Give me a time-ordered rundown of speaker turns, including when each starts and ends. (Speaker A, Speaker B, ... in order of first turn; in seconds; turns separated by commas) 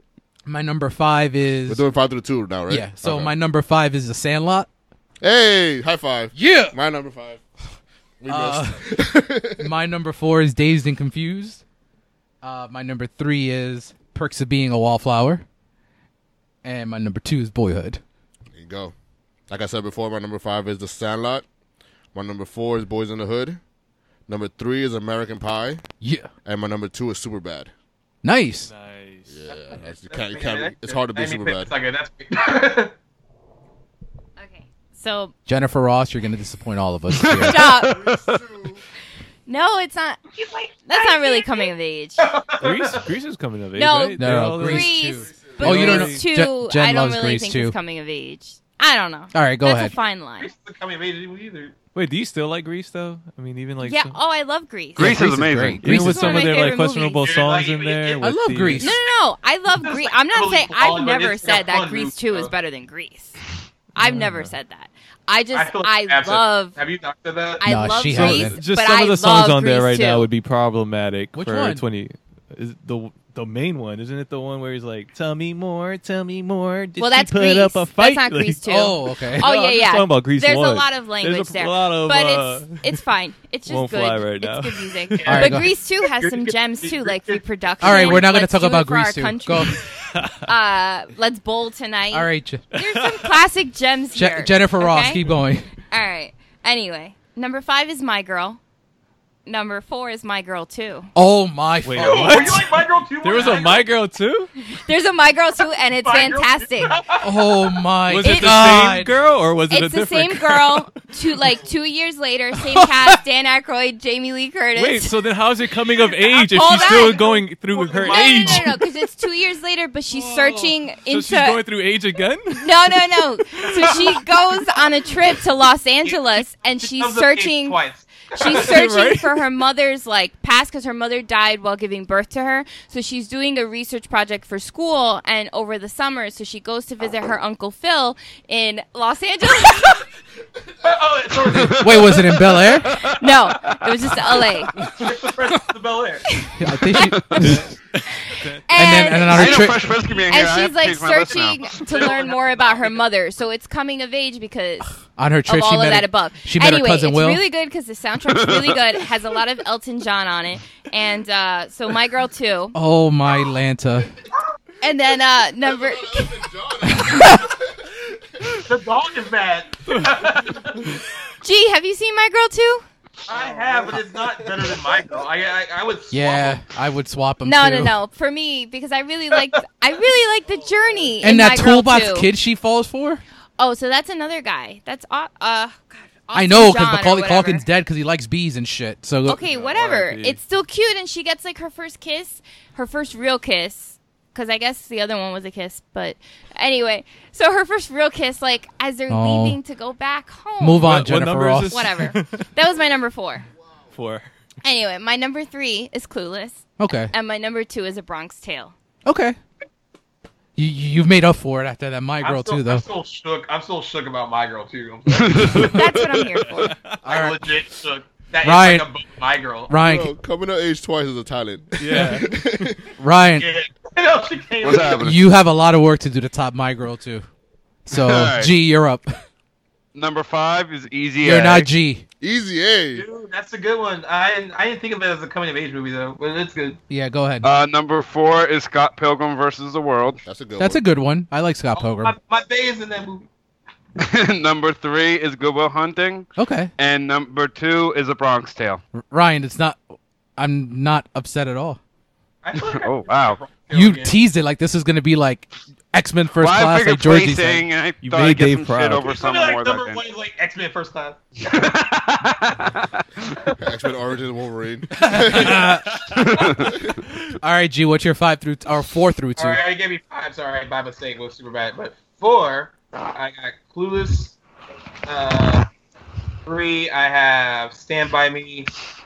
Speaker A: 0.5-1.8, Speaker B: 1.7-3.3, Speaker A: 2.7-4.7, Speaker B: 5.2-7.5, Speaker A: 6.3-6.7, Speaker B: 8.2-9.7, Speaker A: 8.3-8.8, Speaker A: 9.6-11.6, Speaker A: 12.4-15.4, Speaker A: 16.6-18.0, Speaker B: 18.5-18.9, Speaker B: 19.5-21.4, Speaker B: 22.1-23.6, Speaker B: 24.3-25.8, Speaker A: 26.0-26.3, Speaker B: 26.4-27.7, Speaker A: 28.2-28.7, Speaker C: 28.6-29.4, Speaker B: 29.3-31.7, Speaker D: 30.1-32.9, Speaker E: 34.4-35.3, Speaker A: 35.5-37.8, Speaker F: 37.2-38.1, Speaker E: 37.4-38.1, Speaker B: 37.9-38.8, Speaker E: 39.5-40.2, Speaker D: 40.3-43.0, Speaker E: 40.9-42.3, Speaker C: 42.6-46.2, Speaker E: 43.8-50.5, Speaker A: 44.2-47.7, Speaker A: 49.3-49.9, Speaker D: 50.4-51.7, Speaker C: 51.9-54.1, Speaker E: 53.8-55.2, Speaker F: 55.0-55.8, Speaker A: 55.0-56.6, Speaker C: 55.8-58.9, Speaker E: 55.8-57.2, Speaker D: 57.2-58.3, Speaker A: 58.2-58.9, Speaker E: 58.8-63.4, Speaker D: 58.8-59.1, Speaker D: 59.8-62.5, Speaker E: 63.9-66.8, Speaker C: 64.0-64.5, Speaker D: 65.5-67.7, Speaker E: 67.6-70.3, Speaker A: 67.6-68.6, Speaker C: 68.1-78.6, Speaker A: 71.3-71.8, Speaker E: 77.0-89.8, Speaker A: 78.7-79.5, Speaker C: 79.3-83.0, Speaker C: 83.7-85.5, Speaker D: 85.2-88.2, Speaker A: 85.3-85.7, Speaker A: 87.8-89.8, Speaker E: 90.4-95.2, Speaker A: 92.1-92.6, Speaker C: 92.7-93.3, Speaker A: 94.1-95.7, Speaker E: 95.9-98.6, Speaker E: 99.5-101.1, Speaker A: 101.1-102.7, Speaker C: 101.8-104.5, Speaker D: 102.0-103.9, Speaker E: 104.7-107.0, Speaker D: 105.9-107.3, Speaker A: 107.2-109.1, Speaker C: 108.1-110.9, Speaker E: 108.2-108.7, Speaker E: 109.7-115.1, Speaker A: 112.7-113.1, Speaker C: 114.7-118.9, Speaker D: 116.0-118.7, Speaker E: 116.5-117.4, Speaker E: 118.0-121.6, Speaker C: 120.1-124.5, Speaker E: 122.5-127.8, Speaker D: 123.8-124.1, Speaker D: 126.0-128.7, Speaker E: 128.3-140.0, Speaker C: 128.5-129.4, Speaker D: 140.8-142.3, Speaker A: 141.5-143.0, Speaker F: 141.5-141.9, Speaker F: 142.5-143.2, Speaker E: 142.9-144.8, Speaker D: 144.9-146.3, Speaker E: 146.3-147.3, Speaker A: 146.6-147.6, Speaker F: 147.1-147.5, Speaker C: 147.4-149.3, Speaker E: 148.3-154.9, Speaker A: 148.7-149.9, Speaker F: 149.2-151.8, Speaker D: 151.8-153.0, Speaker A: 155.2-157.4, Speaker E: 155.4-162.8, Speaker F: 158.3-158.8, Speaker A: 162.7-164.1, Speaker E: 164.8-166.4, Speaker B: 165.6-167.8, Speaker A: 166.9-167.5, Speaker D: 168.7-170.9, Speaker E: 171.4-172.8, Speaker D: 173.3-176.6, Speaker B: 173.4-173.9, Speaker A: 176.1-177.9, Speaker E: 177.4-182.3, Speaker A: 181.2-183.2, Speaker E: 183.6-187.7, Speaker A: 186.3-189.4, Speaker E: 189.2-201.0, Speaker C: 189.4-190.4, Speaker A: 199.1-199.6, Speaker A: 200.6-201.8, Speaker C: 200.8-202.5, Speaker E: 201.7-203.5, Speaker C: 203.9-204.2, Speaker E: 204.6-208.7, Speaker A: 206.8-207.1, Speaker A: 209.0-209.4, Speaker A: 210.6-212.8, Speaker D: 212.2-215.8, Speaker F: 215.1-216.0, Speaker E: 215.5-216.7, Speaker C: 216.5-216.9, Speaker D: 217.0-219.7, Speaker A: 217.0-217.4, Speaker A: 218.4-218.9, Speaker A: 219.7-220.1, Speaker B: 219.8-222.8, Speaker C: 221.8-222.7, Speaker A: 223.0-223.5, Speaker D: 223.4-225.1, Speaker F: 224.6-225.2, Speaker A: 225.0-227.3, Speaker A: 227.8-229.1, Speaker F: 227.9-228.5, Speaker F: 229.9-231.7, Speaker A: 231.2-232.0, Speaker B: 232.2-233.1, Speaker D: 232.9-236.8, Speaker A: 236.9-237.4, Speaker F: 237.4-240.2, Speaker B: 240.2-240.8, Speaker A: 240.6-242.1, Speaker D: 241.7-243.3, Speaker F: 244.0-248.8, Speaker A: 246.4-246.7, Speaker A: 248.9-249.8, Speaker A: 250.4-251.8, Speaker D: 252.4-254.2, Speaker F: 252.7-253.4, Speaker A: 253.7-257.6, Speaker F: 256.4-260.0, Speaker C: 258.0-259.1, Speaker D: 259.0-261.8, Speaker F: 261.4-263.0, Speaker B: 263.6-265.8, Speaker A: 264.9-266.0, Speaker F: 266.1-266.7, Speaker B: 266.6-266.9, Speaker A: 267.4-269.6, Speaker D: 269.4-274.4, Speaker D: 275.1-275.7, Speaker D: 276.4-278.7